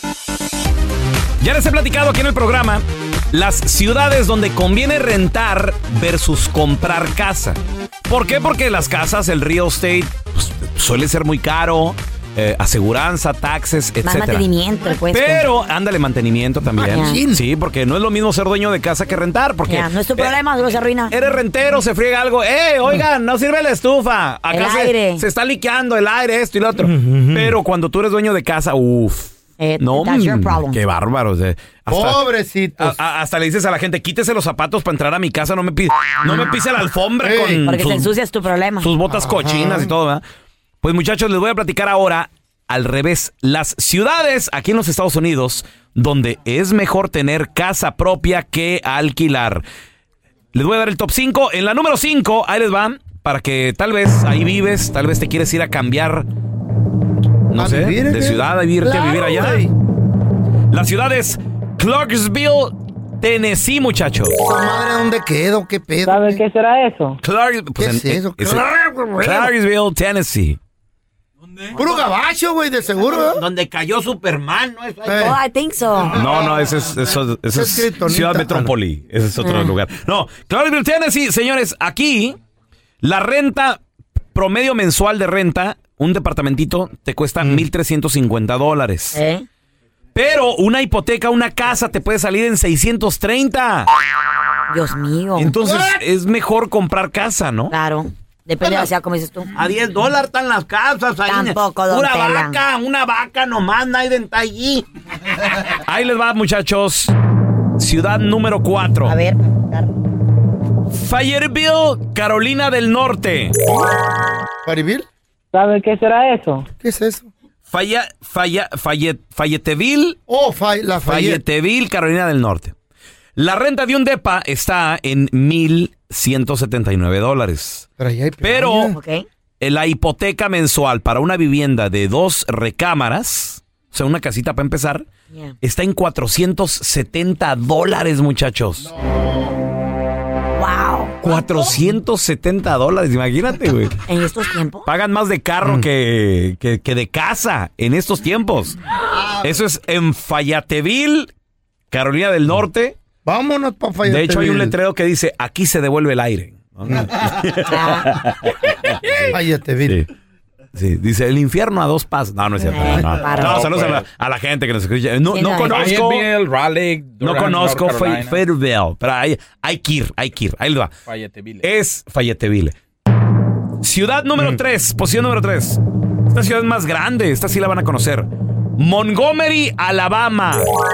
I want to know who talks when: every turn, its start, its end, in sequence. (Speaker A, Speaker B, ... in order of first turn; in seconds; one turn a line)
Speaker A: 1.4-14.5
Speaker B: 14.0-15.5
Speaker A: 15.1-20.4
Speaker C: 16.7-17.4
Speaker B: 16.8-17.2
Speaker B: 19.7-21.1
Speaker A: 21.1-32.2
Speaker B: 24.5-25.2
Speaker C: 26.8-27.6
Speaker B: 29.6-30.8
Speaker C: 31.9-33.0
Speaker A: 32.8-38.1
Speaker B: 36.2-36.5
Speaker C: 37.2-37.6
Speaker B: 37.6-38.9
Speaker A: 38.8-40.2
Speaker C: 39.0-39.9
Speaker A: 40.8-49.6
Speaker A: 50.5-56.3
Speaker A: 57.5-59.6
Speaker C: 57.5-59.7
Speaker A: 60.7-64.3
Speaker C: 64.3-66.4
Speaker D: 66.0-67.2
Speaker A: 67.2-70.6
Speaker C: 67.8-69.5
Speaker C: 71.8-73.4
Speaker E: 73.1-75.3
Speaker C: 75.0-75.3
Speaker B: 75.2-76.2
Speaker C: 76.0-76.7
Speaker A: 76.2-82.4
Speaker C: 77.5-78.7
Speaker B: 79.4-79.7
Speaker A: 83.0-83.8
Speaker A: 84.3-89.2
Speaker C: 87.4-87.7
Speaker B: 89.1-89.5
Speaker A: 90.1-93.9
Speaker B: 94.7-95.5
Speaker A: 95.4-97.7
Speaker B: 97.7-99.5
Speaker E: 99.5-104.8
Speaker B: 101.2-102.6
Speaker A: 105.8-107.1
Speaker A: 107.8-109.1
Speaker B: 109.0-109.9
Speaker A: 110.9-113.5
Speaker C: 113.6-113.9
Speaker C: 114.7-115.1
Speaker D: 115.5-116.7
Speaker C: 116.8-117.3
Speaker A: 117.7-120.2
Speaker C: 120.3-121.4
Speaker A: 121.0-122.7
Speaker A: 123.3-127.9
Speaker C: 128.0-129.0
Speaker A: 128.4-128.9
Speaker B: 128.9-129.2
Speaker A: 129.6-135.0
Speaker A: 135.6-138.9
Speaker B: 140.6-141.2
Speaker A: 141.2-144.0
Speaker B: 144.1-144.9
Speaker A: 144.8-148.8
Speaker A: 149.4-151.3
Speaker A: 151.9-152.9
Speaker C: 153.2-154.7
Speaker A: 154.0-158.8
Speaker B: 157.7-158.1
Speaker A: 159.3-160.1
Speaker C: 159.3-160.0
Speaker A: 160.7-166.3
Speaker B: 162.6-163.8
Speaker F: 163.4-164.1
Speaker B: 165.3-166.0
Speaker F: 165.7-168.4
Speaker A: 167.2-170.9
Speaker F: 171.1-171.7
Speaker A: 171.6-172.7
Speaker A: 173.8-180.7